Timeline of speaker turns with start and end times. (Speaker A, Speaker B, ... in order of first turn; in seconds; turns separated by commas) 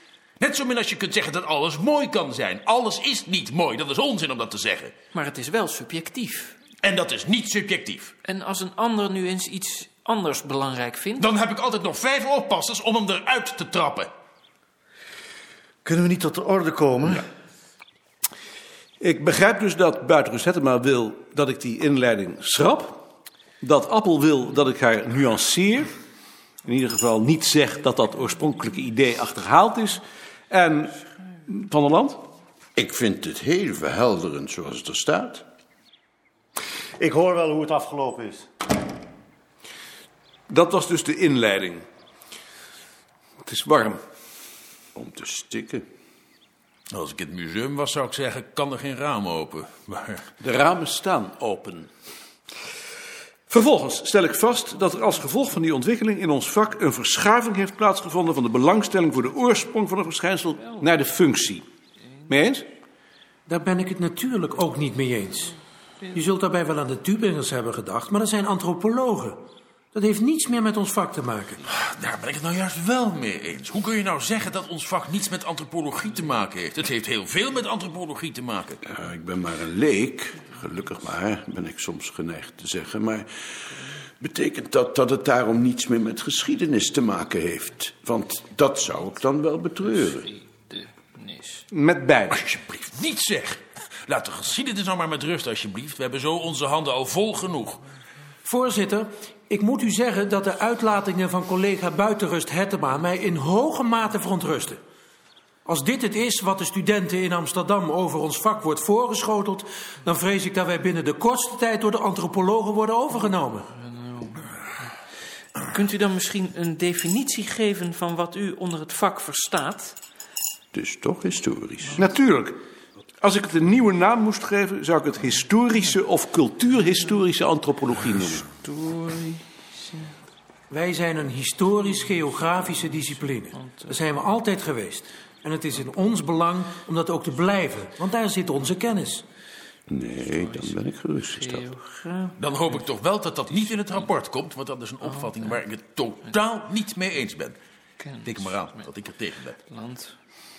Speaker A: 0.4-4.9, Speaker B: 5.1-6.6, Speaker A: 6.8-8.1, Speaker B: 8.2-11.3, Speaker A: 11.2-14.1, Speaker C: 15.8-17.2, Speaker D: 19.0-23.1, Speaker D: 23.6-25.9, Speaker D: 26.6-32.3, Speaker E: 32.8-35.5, Speaker C: 37.0-38.5, Speaker D: 40.5-41.8, Speaker D: 43.4-44.0, Speaker E: 45.0-45.9, Speaker A: 46.9-50.2, Speaker D: 50.4-51.9, Speaker D: 53.5-61.6, Speaker D: 62.3-62.7, Speaker F: 63.5-65.5, Speaker F: 66.1-69.4, Speaker F: 69.9-71.6, Speaker A: 71.7-78.8, Speaker E: 78.8-83.3, Speaker E: 84.2-90.3, Speaker B: 90.3-91.7, Speaker D: 91.7-92.4, Speaker A: 92.3-97.8, Speaker F: 98.4-104.8, Speaker F: 105.6-113.7, Speaker B: 113.9-114.5, Speaker B: 115.6-120.0, Speaker E: 120.7-122.0, Speaker D: 122.0-122.6, Speaker D: 123.2-128.5, Speaker B: 128.5-130.1, Speaker F: 130.7-139.2, Speaker B: 133.5-133.9, Speaker E: 139.9-141.7, Speaker B: 141.3-142.4, Speaker A: 142.4-147.6, Speaker B: 145.0-145.6, Speaker B: 148.0-148.7, Speaker A: 148.2-149.6, Speaker B: 149.6-150.1